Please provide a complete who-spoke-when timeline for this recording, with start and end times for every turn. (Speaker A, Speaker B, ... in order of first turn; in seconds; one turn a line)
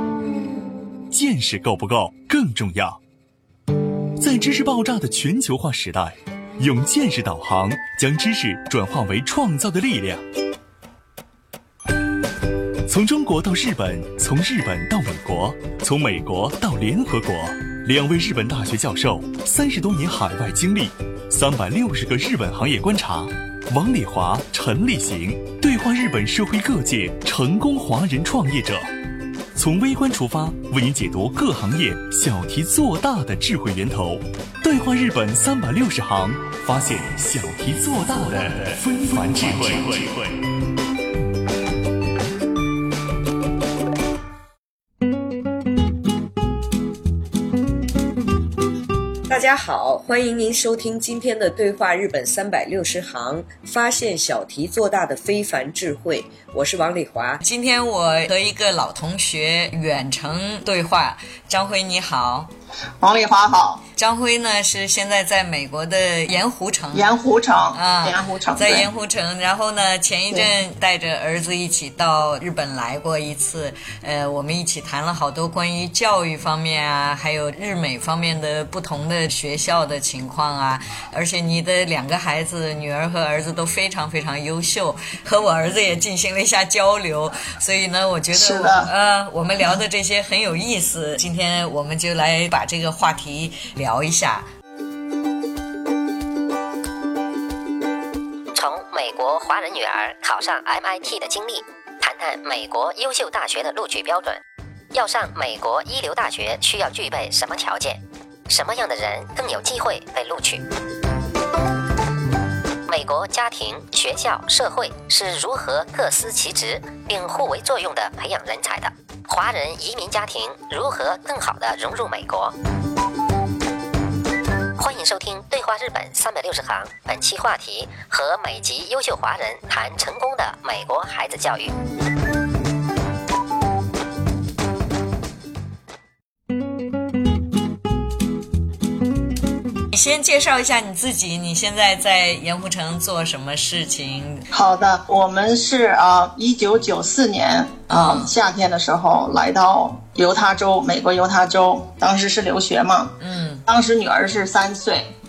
Speaker A: 1.1-3.0
Speaker A: 4.2-10.2
Speaker A: 12.8-28.9
Speaker A: 29.5-40.4
Speaker B: 49.3-57.4
Speaker C: 57.4-62.5
Speaker D: 63.0-63.8
Speaker C: 63.9-67.1
Speaker D: 66.9-68.9
Speaker C: 67.7-94.5
Speaker D: 88.3-88.9
Speaker E: 98.5-104.4
Speaker E: 104.9-110.6
Speaker E: 112.9-122.5
Speaker E: 124.8-131.7
Speaker C: 139.9-144.5
Speaker D: 144.5-155.1
Speaker C: 147.9-148.3
Speaker C: 153.2-153.6